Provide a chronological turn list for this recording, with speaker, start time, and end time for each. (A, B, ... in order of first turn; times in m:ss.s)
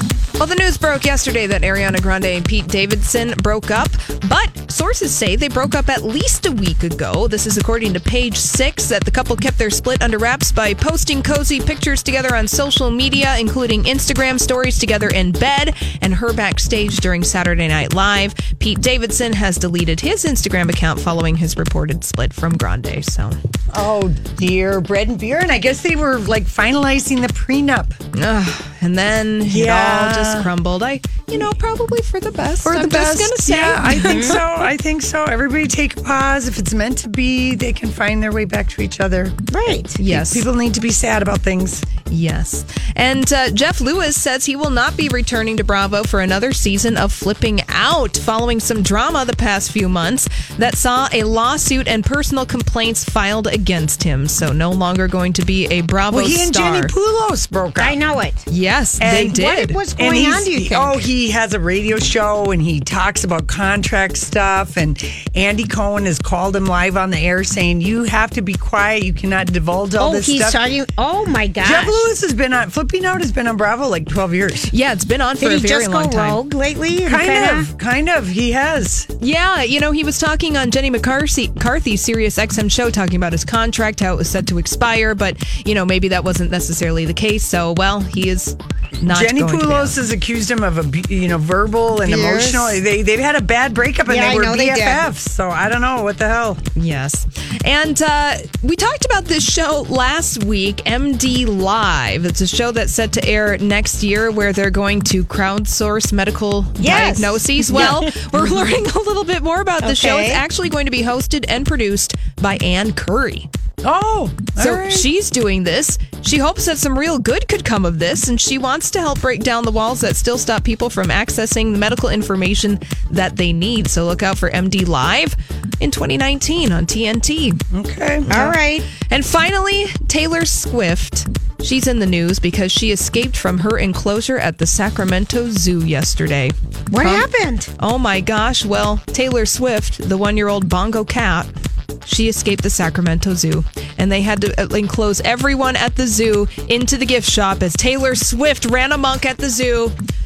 0:00.4-0:23.4 A
0:23.7-0:27.9 B
0:28.2-0:34.4 A
0:29.4-0:30.5 B
0:32.6-0:39.4 B
0:34.0-0:34.4 C
0:39.5-0:40.0 C
0:40.0-0:40.5 A
0:40.0-0:41.9 B
0:42.1-0:57.0 A
0:56.1-0:58.0 B
0:57.8-0:58.4 C
0:58.5-0:59.8 A
0:59.0-0:59.4 B
0:59.3-1:01.0 C
1:00.0-1:10.6 B
1:10.0-1:12.1 C
1:11.6-1:14.7 B
1:14.6-1:16.4 A
1:15.4-1:17.7 C
1:17.1-1:19.1 B
1:19.2-1:30.0 A
1:29.0-1:36.6 B
1:32.0-1:32.8 C
1:34.1-1:35.0 C
1:36.8-1:53.5 A
1:46.8-1:48.0 C
1:49.8-1:50.4 C
1:53.8-1:55.1 B
1:54.6-2:07.6 A
2:07.7-2:08.3 B
2:08.3-2:17.3 A
2:08.3-2:08.9 C
2:16.9-2:17.7 C
2:17.8-2:21.5 A
2:22.0-2:30.0 A